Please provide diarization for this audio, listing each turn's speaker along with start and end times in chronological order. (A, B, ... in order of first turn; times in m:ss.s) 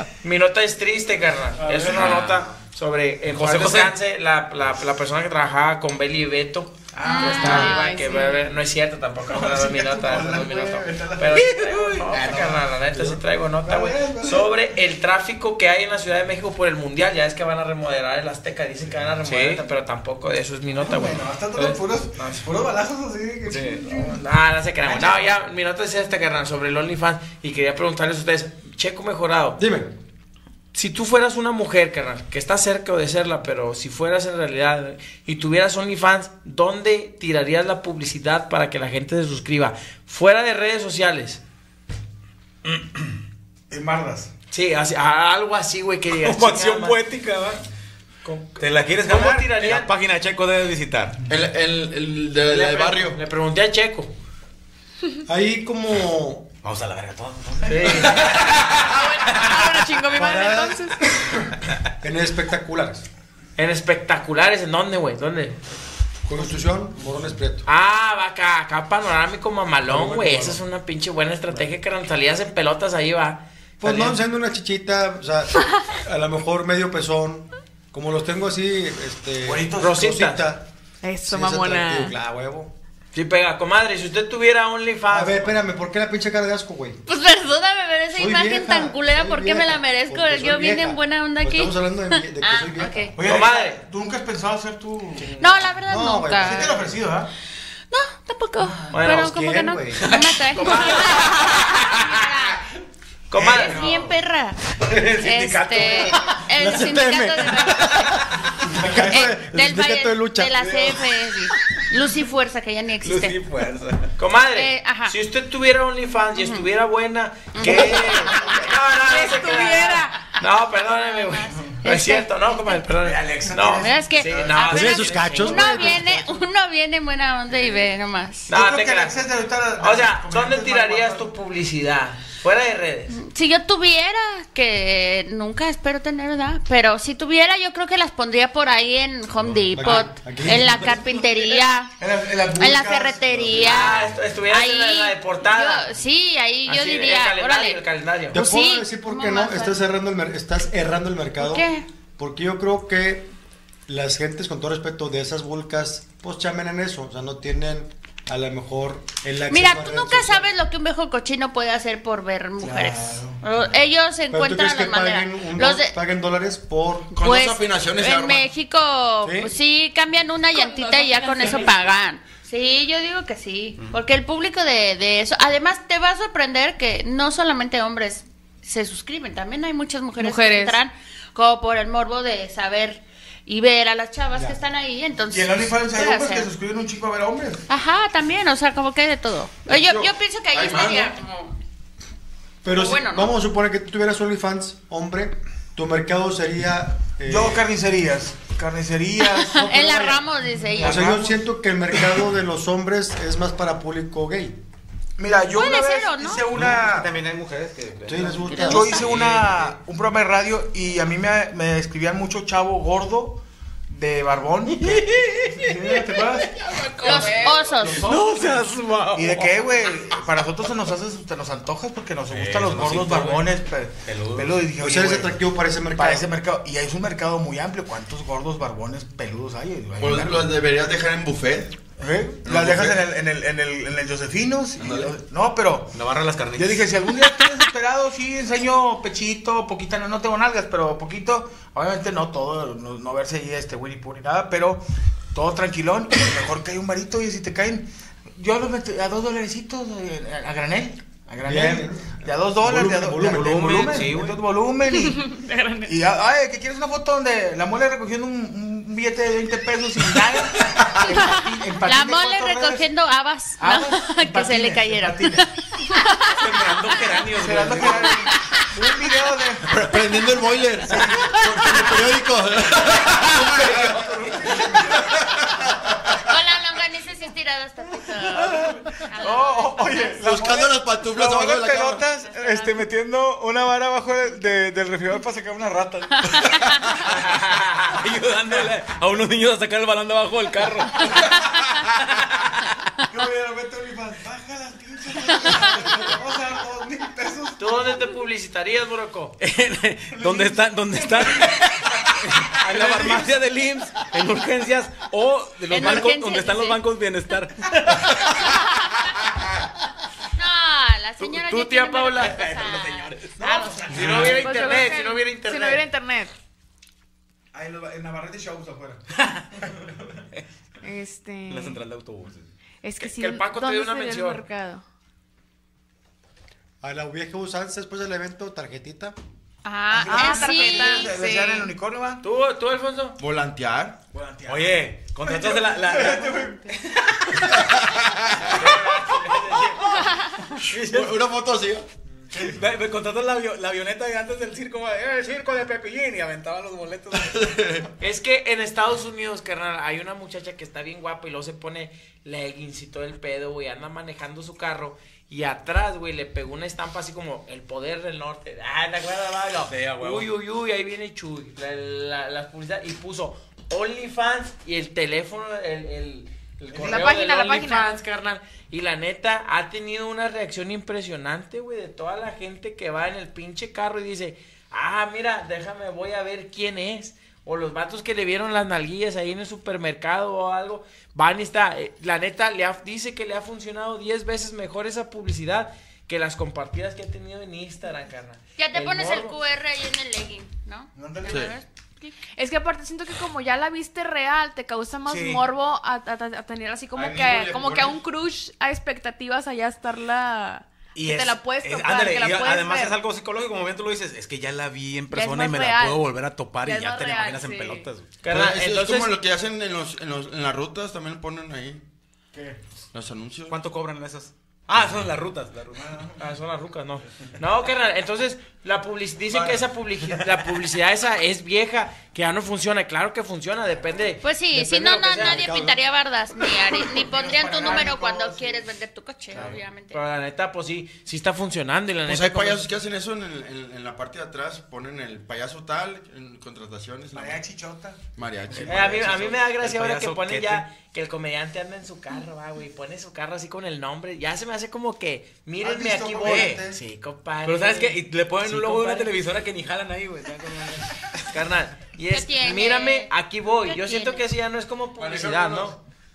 0:00.2-0:22.4 A
0:01.6-0:02.2 B
0:01.9-0:02.5 C
0:03.3-0:03.9 C
0:06.9-0:07.8 B
0:07.0-0:07.8 D
0:07.2-0:08.5 E
0:09.3-0:12.6 B
0:11.3-0:12.5 C
0:13.6-0:14.5 B
0:19.2-0:19.6 C
0:20.8-0:24.2 B
0:23.4-0:23.8 C
0:24.0-0:29.6 A
0:24.8-0:25.3 B
0:29.6-0:29.9 F
0:30.7-0:41.4 A
0:43.7-0:44.3 B
0:44.5-0:47.0 A
0:46.2-0:47.6 C
0:48.2-0:49.9 A
0:48.6-0:51.2 C
0:51.3-0:53.2 G
0:52.4-0:54.1 A
0:55.2-0:56.5 F
0:56.6-0:59.7 C
0:57.7-0:58.3 A
0:58.9-1:01.0 E
1:00.1-1:03.0 F
1:03.6-1:05.6 A
1:06.3-1:07.6 F
1:07.6-1:14.2 A
1:09.9-1:10.6 F
1:13.8-1:20.6 F
1:19.4-1:19.9 B
1:19.8-1:20.4 A
1:21.0-1:22.1 E
1:21.2-1:22.7 F
1:23.1-1:25.5 A
1:25.1-1:27.0 F
1:27.1-1:33.2 D
1:28.1-1:33.1 F
1:33.1-1:35.3 B
1:33.2-1:33.8 A
1:35.2-1:35.5 A
1:35.4-1:36.7 D
1:35.8-1:36.8 F
1:36.4-1:37.3 B
1:37.9-1:42.7 D
1:38.9-1:39.4 A
1:39.0-1:40.1 F
1:40.0-1:42.1 C
1:40.5-1:41.7 A
1:43.3-1:43.8 A
1:43.4-1:44.1 B
1:43.4-1:44.6 D
1:44.8-1:46.4 C
1:45.2-1:48.2 D
1:46.5-1:51.1 F
1:47.6-1:48.0 C
1:48.6-1:49.3 B
1:49.1-1:53.4 D
1:53.0-1:54.1 C
1:54.2-2:06.1 A
1:54.5-1:55.1 D
1:56.3-1:56.7 D
1:57.5-1:58.6 D
1:59.1-2:00.1 E
1:59.4-2:00.1 D
2:01.0-2:02.8 D
2:01.5-2:01.8 B
2:03.1-2:04.6 B
2:03.7-2:08.5 D
2:04.7-2:06.4 F
2:08.5-2:13.2 A
2:08.5-2:11.3 B
2:13.1-2:21.9 D
2:19.7-2:20.9 F
2:20.5-2:21.0 C
2:22.0-2:24.1 B
2:22.6-2:27.8 D
2:23.5-2:25.9 A
2:26.6-2:28.4 A
2:28.3-2:33.3 F
2:28.3-2:29.8 D
2:31.4-2:31.8 D
2:33.9-2:40.5 F
2:39.5-2:46.0 D
2:42.6-2:43.4 B
2:44.3-2:47.1 F
2:47.1-2:48.5 G
2:47.2-3:06.5 D
2:49.2-2:49.5 F
2:50.5-2:51.9 E
3:00.2-3:00.8 E
3:05.3-3:07.6 B
3:07.7-3:11.5 D
3:09.6-3:11.2 G
3:12.6-3:17.6 F
3:12.6-3:13.4 D
3:17.2-3:21.4 B
3:19.4-3:21.2 D
3:19.7-3:20.1 F
3:20.8-3:24.6 F
3:25.2-3:27.1 B
3:25.5-3:26.5 D
3:26.5-3:29.8 C
3:28.0-3:29.0 F
3:28.5-3:29.1 D
3:28.6-3:36.5 B
3:34.7-3:39.8 C
3:37.0-3:38.1 D
3:37.0-3:45.3 B
3:42.3-3:43.5 C
3:44.0-3:44.6 C
3:44.8-3:46.2 F
3:45.9-3:50.5 B
3:50.0-3:51.8 G
3:52.0-3:55.9 B
3:52.4-3:53.0 G
3:54.8-3:55.1 G
3:55.9-3:57.0 C
3:56.5-4:15.3 B
4:11.4-4:14.1 F
4:13.2-4:14.4 C
4:15.0-4:15.9 E
4:15.8-4:22.8 B
4:21.8-4:27.2 D
4:23.6-4:25.5 B
4:26.2-4:28.2 C
4:27.2-4:29.8 B
4:28.2-4:28.6 D
4:29.6-4:34.0 G
4:30.8-4:32.1 B
4:32.8-4:35.9 B
4:33.4-4:34.8 C
4:35.0-4:36.2 G
4:36.2-4:40.2 D
4:38.0-4:46.8 B
4:40.2-4:42.0 G
4:42.2-4:42.8 D
4:46.3-4:46.8 D
4:47.0-4:47.4 C
4:47.1-4:47.9 A
4:47.9-4:52.7 C
4:53.1-4:58.0 B
4:57.6-4:59.4 A
4:59.4-5:08.5 C
5:00.1-5:01.7 B
5:02.5-5:03.4 B
5:05.7-5:06.8 D
5:10.3-5:14.1 D
5:11.2-5:12.4 A
5:12.1-5:14.5 C
5:13.4-5:14.4 B
5:13.9-5:15.8 A
5:14.2-5:16.3 E
5:17.5-5:19.0 B
5:19.6-5:20.2 B
5:20.8-5:21.8 E
5:21.5-5:22.5 C
5:22.8-5:24.8 E
5:23.0-5:24.4 A
5:26.8-5:29.2 F
5:29.6-5:31.1 D
5:29.9-5:32.2 B
5:29.9-5:31.7 E
5:32.2-5:33.2 A
5:33.2-5:34.0 G
5:34.1-5:36.7 B
5:34.4-5:37.8 C
5:37.5-5:38.5 G
5:38.5-5:39.8 A
5:38.6-5:41.2 C
5:40.7-5:41.8 G
5:42.3-5:42.6 B
5:42.4-5:47.9 C
5:47.3-5:47.9 G
5:48.0-6:29.4 A
5:59.7-6:00.3 C
6:06.7-6:07.1 B
6:06.8-6:07.9 E
6:28.6-6:31.6 D
6:30.9-6:31.4 B
6:31.2-6:31.6 G
6:32.0-6:43.0 E
6:35.0-6:35.4 C
6:37.0-6:38.0 G
6:40.9-6:48.1 C
6:45.1-6:46.1 E
6:46.6-6:47.9 E
6:48.2-6:49.2 A
6:48.3-6:51.8 G
6:52.3-6:52.6 B
6:52.9-6:53.6 G
6:53.5-6:56.0 C
6:55.7-6:56.2 B
6:56.2-7:05.5 A
6:59.3-6:59.6 B
7:04.2-7:10.0 D
7:05.1-7:05.8 F
7:06.9-7:08.7 B
7:09.3-7:12.7 A
7:12.1-7:17.4 G
7:17.1-7:18.0 B
7:18.2-7:19.3 G
7:18.5-7:20.6 C
7:18.6-7:29.1 A
7:25.6-7:26.8 B
7:26.2-7:26.6 C
7:27.4-7:31.2 C
7:31.3-7:35.8 A
7:32.1-7:33.1 D
7:33.6-7:34.2 D
7:35.0-7:35.7 B